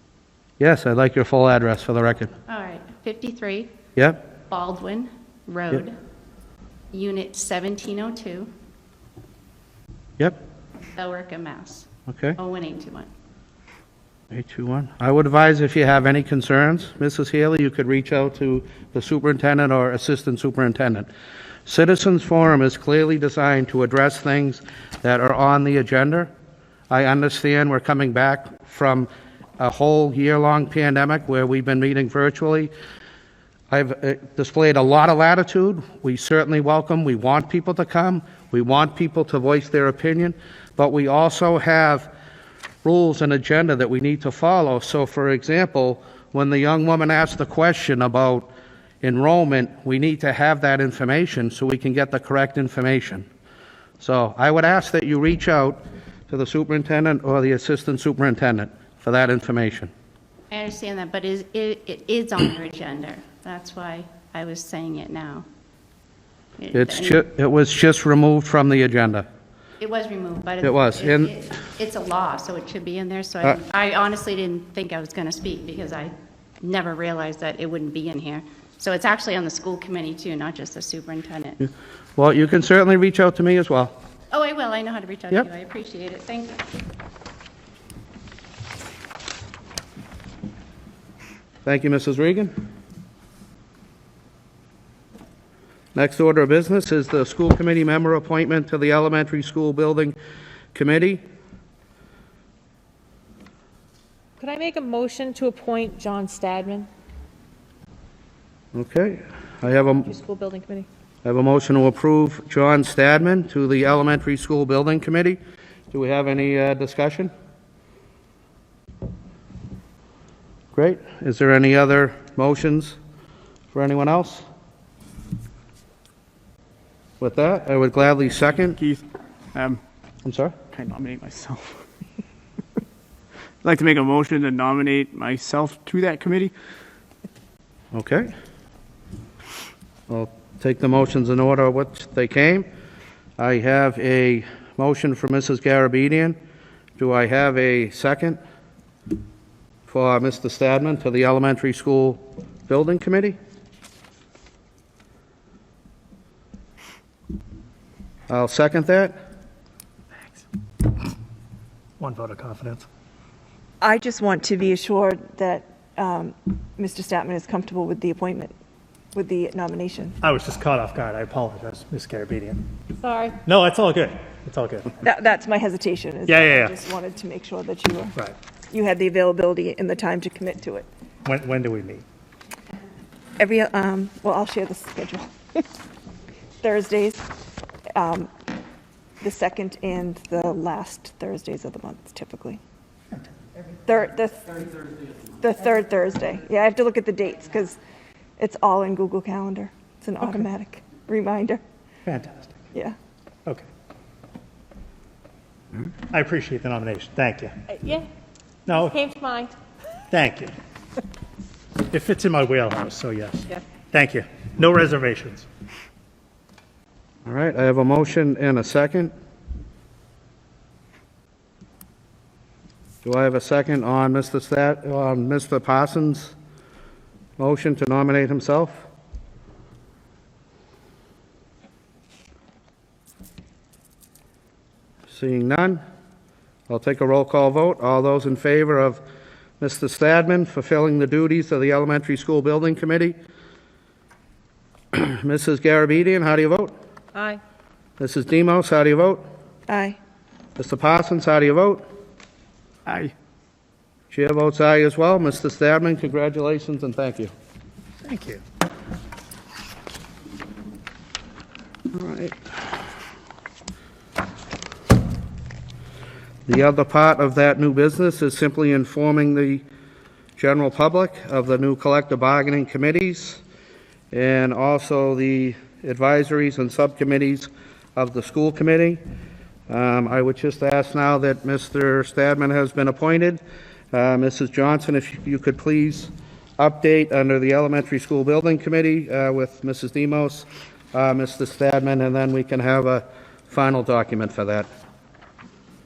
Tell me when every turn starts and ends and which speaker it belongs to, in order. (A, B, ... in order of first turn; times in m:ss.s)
0:00.6-0:02.3 A
0:02.5-0:03.7 B
0:04.5-0:06.0 B
0:06.9-0:08.5 B
0:11.0-0:13.1 B
0:12.1-0:12.4 A
0:14.3-0:21.1 A
0:21.7-0:26.3 A
0:26.9-0:32.7 A
0:33.7-0:42.1 A
0:42.8-0:48.5 A
0:49.0-0:53.3 A
0:54.0-0:59.9 A
1:00.5-1:05.5 B
1:06.6-1:07.2 B
1:06.7-1:09.3 A
1:09.8-1:21.6 B
1:10.6-1:11.3 A
1:21.6-1:24.0 A
1:24.3-1:26.6 B
1:31.6-1:32.5 A
1:36.0-1:40.2 A
1:40.7-1:41.2 A
1:44.4-1:46.9 C
1:48.7-1:50.1 A
1:49.9-1:50.9 C
1:51.2-1:55.4 A
1:55.9-1:57.3 A
2:00.7-2:03.0 A
2:03.7-2:04.5 A
2:07.2-2:08.8 A
2:08.8-2:09.8 D
2:10.3-2:10.6 A
2:10.7-2:11.8 D
2:13.6-2:16.5 D
2:17.9-2:18.3 A
2:20.1-2:22.7 A
2:23.4-2:26.4 A
2:27.0-2:28.4 A
2:29.9-2:33.4 A
2:38.3-2:39.2 A
2:42.0-2:42.9 E
2:43.8-2:48.5 F
2:49.2-2:50.1 F
2:50.2-2:52.7 E
2:53.0-2:53.4 C
2:53.4-2:55.0 E
2:55.1-2:58.1 F
2:56.3-2:56.8 E
2:58.7-3:00.9 F
3:01.2-3:02.0 E
3:03.4-3:05.2 F
3:06.6-3:07.2 F
3:07.9-3:08.3 F
3:09.2-3:12.6 F
3:13.9-3:14.6 F
3:15.4-3:17.8 F
3:18.4-3:21.6 F
3:22.1-3:22.6 E
3:26.1-3:27.5 E
3:27.7-3:28.1 C
3:28.7-3:29.0 E
3:28.7-3:29.5 C
3:30.1-3:30.5 E
3:31.9-3:35.5 E
3:37.3-3:39.1 A
3:43.0-3:46.3 A
3:47.4-3:48.9 A
3:55.1-3:55.8 A
3:56.7-3:59.0 A
3:59.6-4:03.2 A
4:04.9-4:06.7 A
4:07.2-4:07.4 C
4:08.0-4:09.2 A
4:09.7-4:10.0 F
4:10.6-4:11.8 A
4:14.1-4:17.3 A
4:18.0-4:18.4 E
4:21.9-4:22.4 A
4:26.5-4:29.6 A
4:30.4-4:33.4 A
4:34.1-4:39.0 A
4:39.7-4:43.4 A
4:43.9-4:54.7 A